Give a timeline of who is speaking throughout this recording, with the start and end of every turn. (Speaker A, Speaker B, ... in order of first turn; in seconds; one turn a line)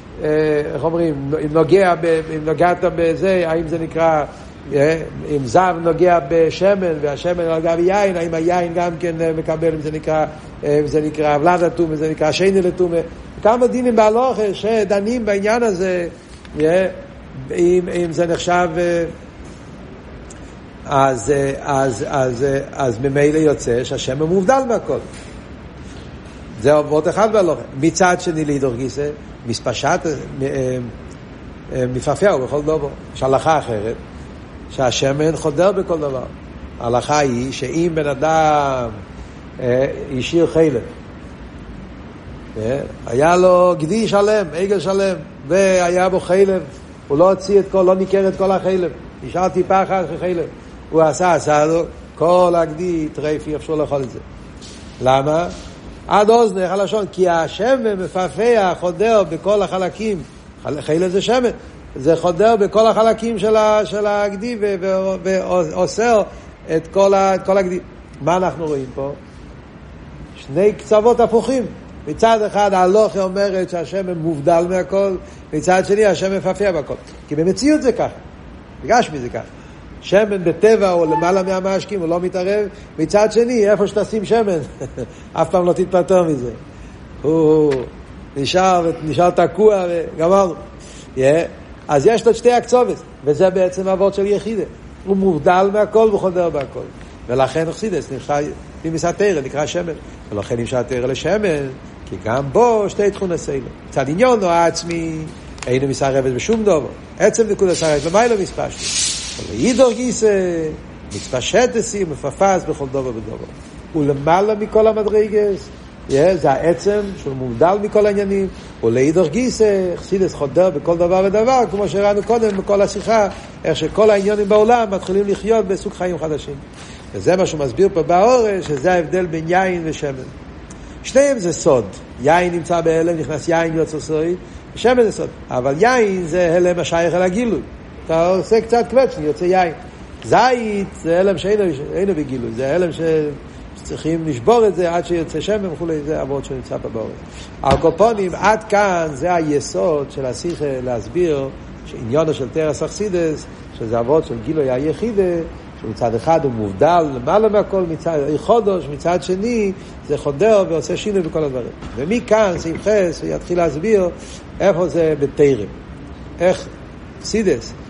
Speaker A: 0.2-19.1
Speaker A: 20.9-25.0
Speaker A: 26.6-30.9
Speaker A: 31.7-34.0
Speaker A: 34.7-39.0
Speaker A: 39.6-40.9
Speaker A: 42.6-54.2
Speaker A: 55.0-55.5
Speaker A: 56.1-69.2
Speaker A: 70.4-78.2
Speaker A: 78.8-79.5
Speaker A: 80.0-86.6
Speaker A: 87.2-90.6
Speaker A: 91.2-126.6
Speaker A: 127.1-130.3
Speaker A: 131.0-165.7
Speaker A: 166.4-166.7
Speaker A: 167.2-167.7